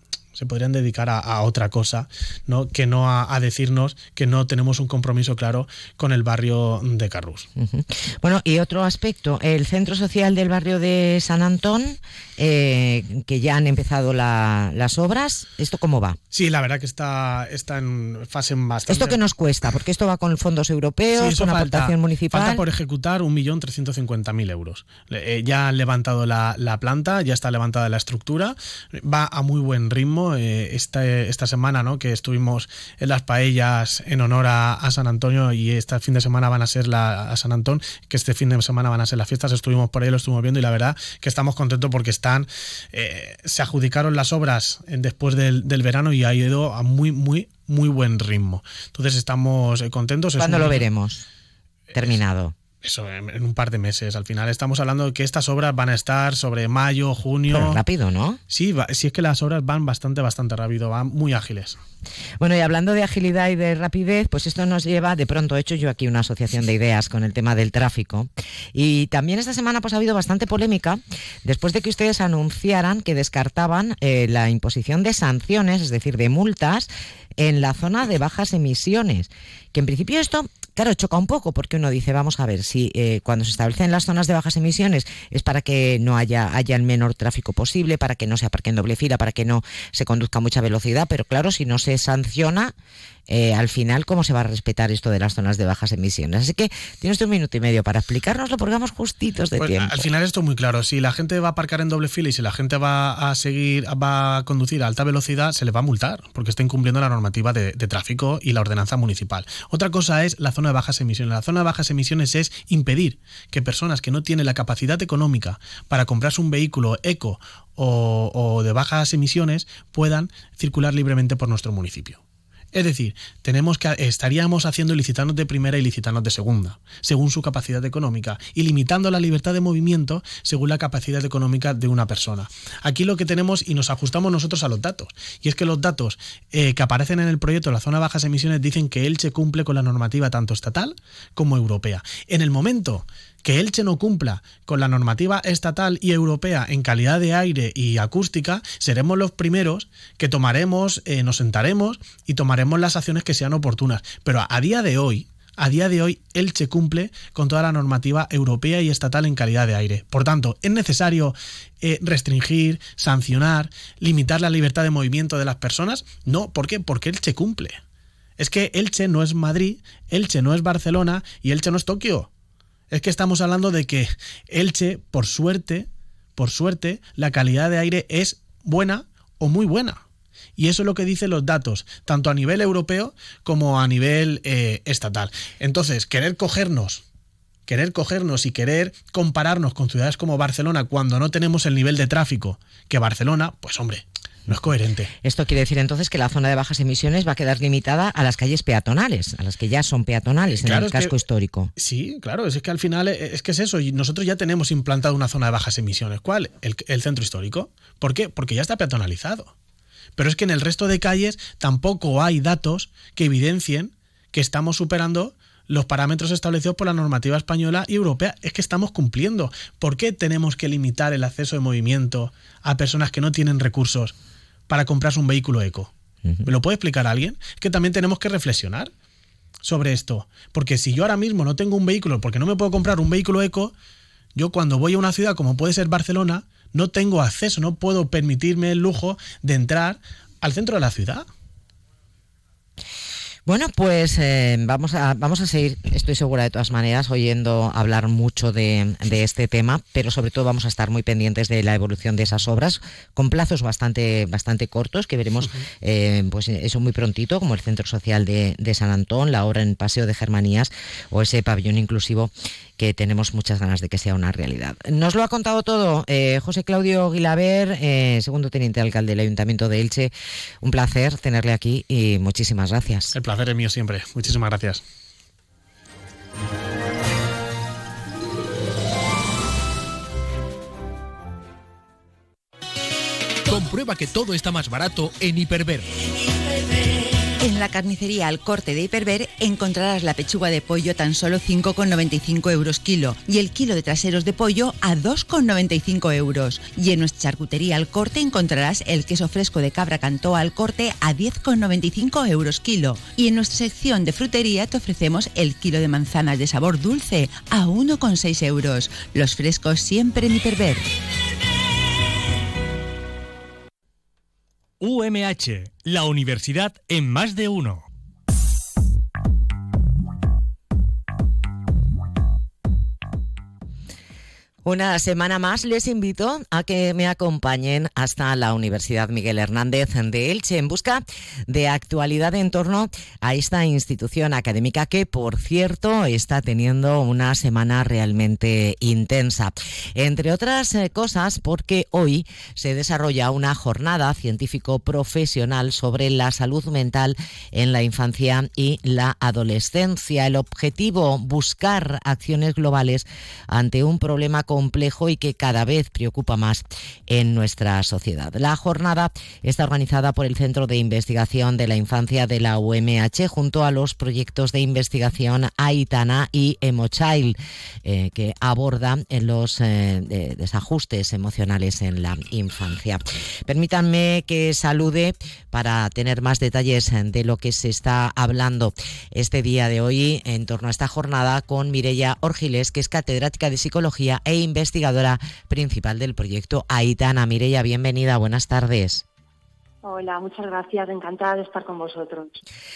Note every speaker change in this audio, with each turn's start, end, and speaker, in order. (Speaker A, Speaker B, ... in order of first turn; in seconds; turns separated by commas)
Speaker A: 0.3-7.5, Speaker B: 7.6-16.2, Speaker A: 16.3-19.2, Speaker B: 18.9-22.6, Speaker A: 21.1-50.9, Speaker B: 50.4-51.2, Speaker B: 51.9-52.5, Speaker A: 52.8-57.8, Speaker B: 57.5-58.4, Speaker A: 58.5-61.8, Speaker B: 62.4-92.7, Speaker B: 93.3-100.1, Speaker A: 99.6-122.2, Speaker A: 122.7-167.8, Speaker A: 168.4-172.3, Speaker A: 172.9-180.0, Speaker A: 180.6-187.0, Speaker A: 187.7-195.1, Speaker B: 195.2-201.7, Speaker A: 200.6-201.2, Speaker A: 201.8-209.5, Speaker A: 210.2-224.2, Speaker A: 224.7-225.9, Speaker A: 226.4-228.9, Speaker A: 229.6-233.7, Speaker A: 234.4-241.2, Speaker B: 243.5-273.1, Speaker A: 273.1-274.8, Speaker C: 283.5-285.9, Speaker D: 287.4-310.9, Speaker C: 314.8-317.9, Speaker B: 324.6-389.1, Speaker E: 389.8-392.4